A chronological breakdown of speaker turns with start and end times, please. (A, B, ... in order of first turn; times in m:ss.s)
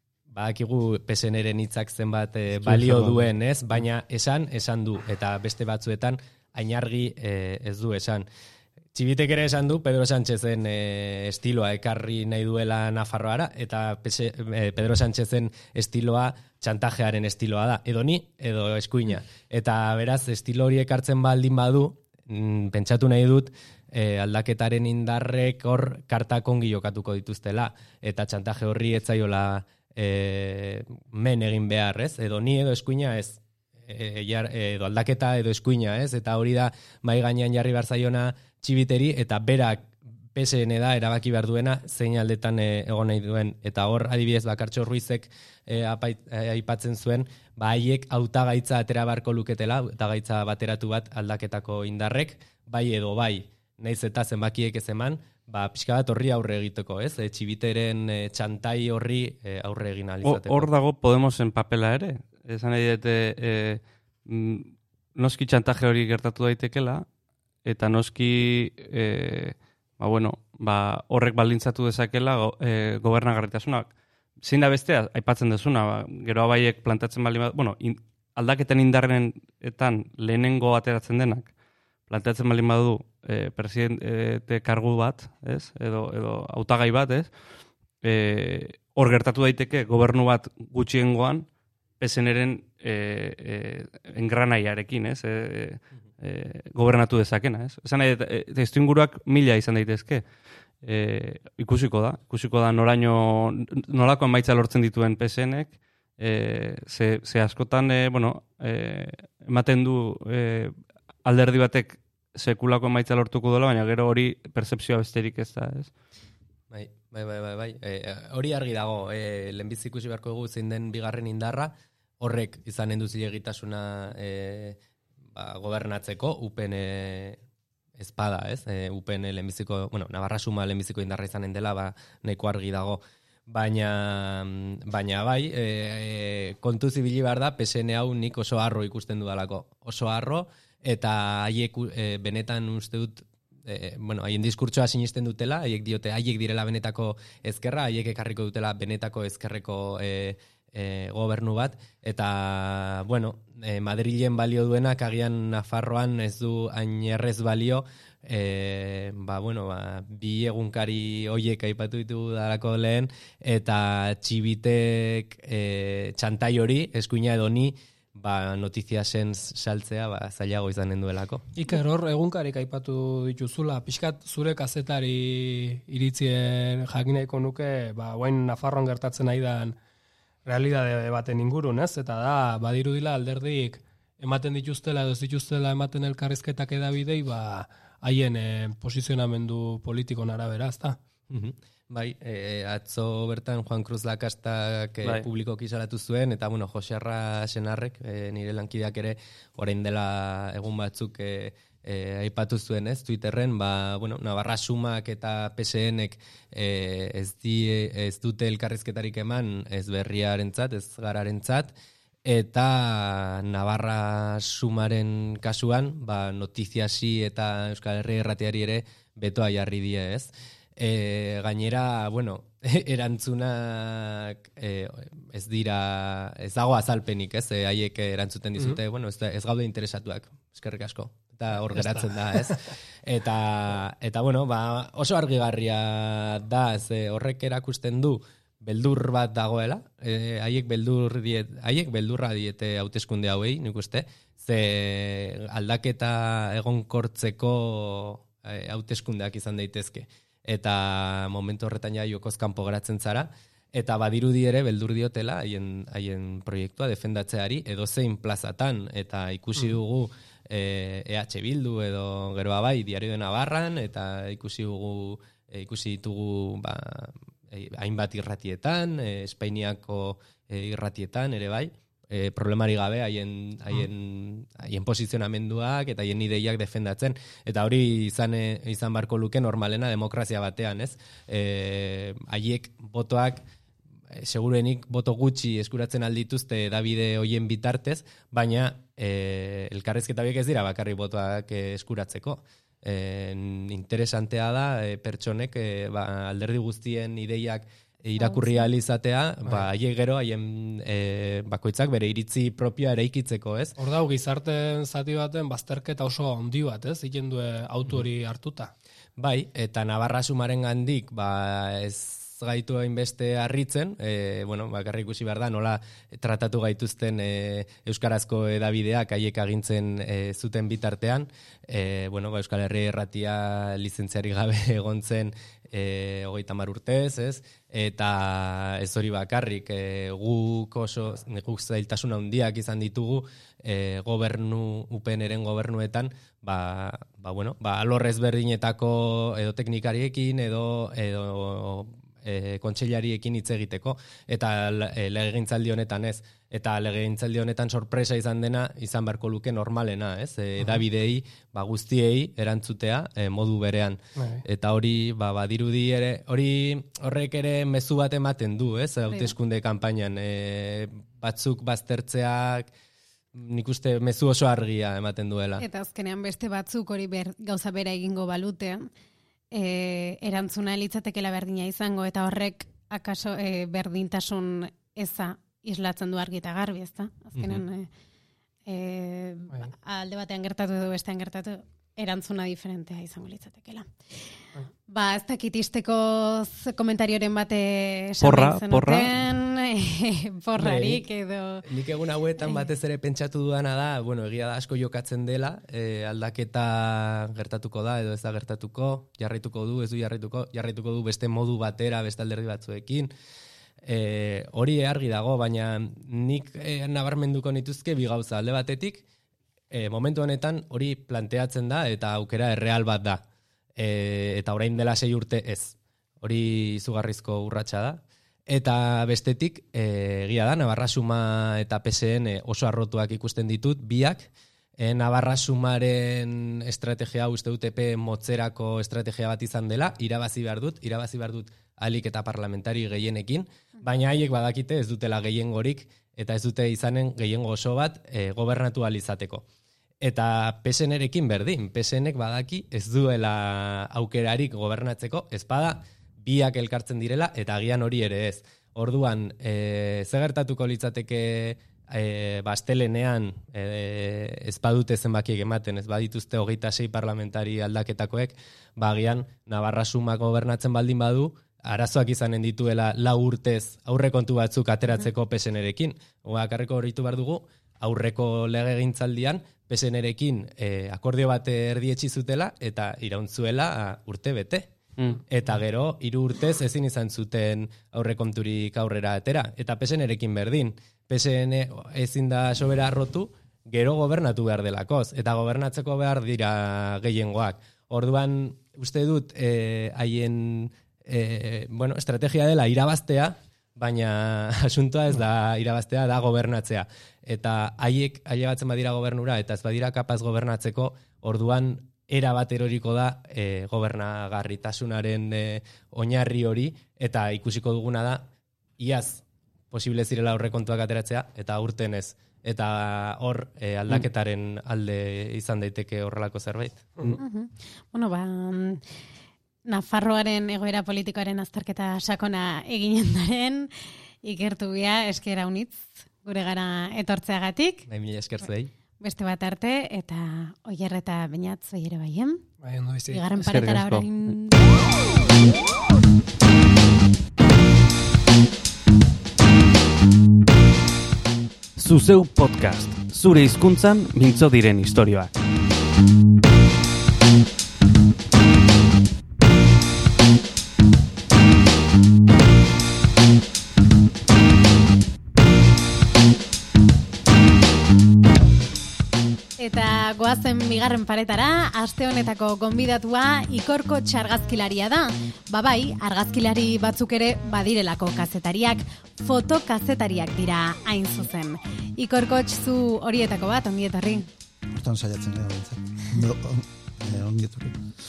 0:00.3-0:08.2 A
0:02.5-0:03.3 B
0:08.9-1:00.7 A
1:00.2-1:07.0 C
1:07.6-1:13.9 C
1:14.4-1:21.5 C
1:22.1-1:27.3 C
1:28.0-1:31.4 C
1:32.0-1:40.2 C
1:40.8-1:50.7 C
1:51.2-1:55.9 C
1:56.7-2:04.8 A
2:05.3-2:07.4 A
2:08.0-2:51.4 A
2:51.5-2:59.7 D
3:00.4-3:11.0 D
3:11.3-3:31.7 A
3:32.2-4:43.4 A
4:44.2-5:03.7 A
4:58.2-4:58.7 E
5:03.8-5:08.7 D
5:09.2-6:02.7 A
5:54.2-5:54.4 D
6:03.3-6:05.6 A
6:05.6-6:08.9 E
6:09.5-6:17.9 E
6:18.6-6:23.9 E
6:24.9-6:31.6 E
6:28.2-6:29.2 C
6:30.6-6:31.0 A
6:31.6-6:43.1 A
6:43.8-6:49.0 A
6:49.7-6:53.2 A
6:53.8-7:19.4 A
7:20.0-7:54.7 A
7:55.3-8:28.3 A
8:28.8-8:36.8 A
8:37.2-8:38.8 E
8:39.6-8:43.7 E
8:44.2-8:47.8 E
8:47.9-8:48.7 A
8:49.0-8:52.4 E
8:52.6-8:53.2 D
8:53.1-8:54.7 E
8:53.4-8:54.3 C
9:01.8-9:05.3 C
9:19.6-9:34.3 E
9:34.8-9:37.8 B